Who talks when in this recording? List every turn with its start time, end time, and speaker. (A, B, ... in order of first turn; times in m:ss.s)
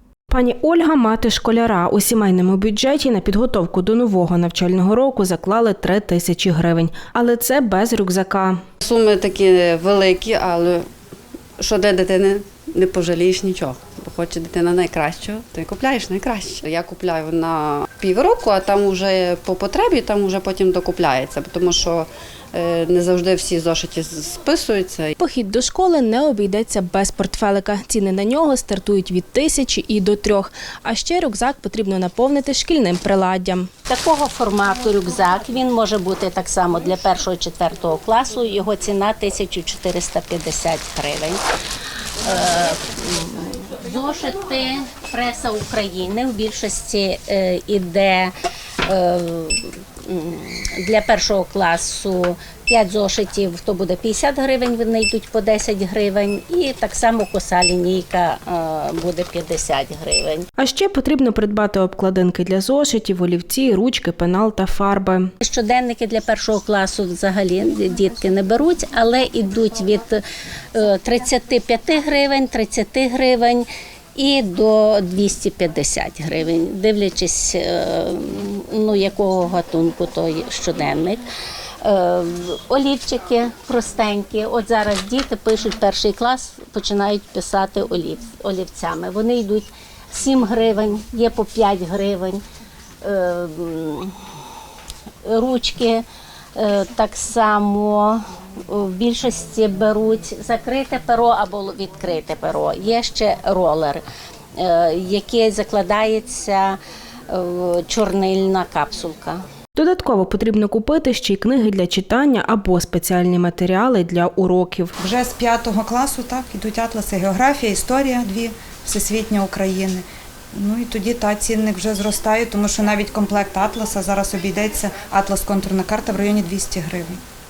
0:00.3-0:08.6 A
0:08.8-0:10.8 B
0:11.6-0:25.2 B
0:25.2-0:33.7 A
0:33.9-0:41.4 C
0:42.2-0:48.3 C
0:48.8-1:00.5 C
1:00.6-1:05.3 A
1:05.4-1:10.2 C
1:10.7-1:21.2 C
1:21.8-1:32.4 C
1:33.0-1:34.2 C
1:35.2-1:36.0 C
1:36.6-1:44.0 C
1:44.6-1:46.8 C
1:47.3-1:49.4 C
1:49.7-1:54.9 A
1:55.0-2:00.0 D
2:00.5-2:07.2 D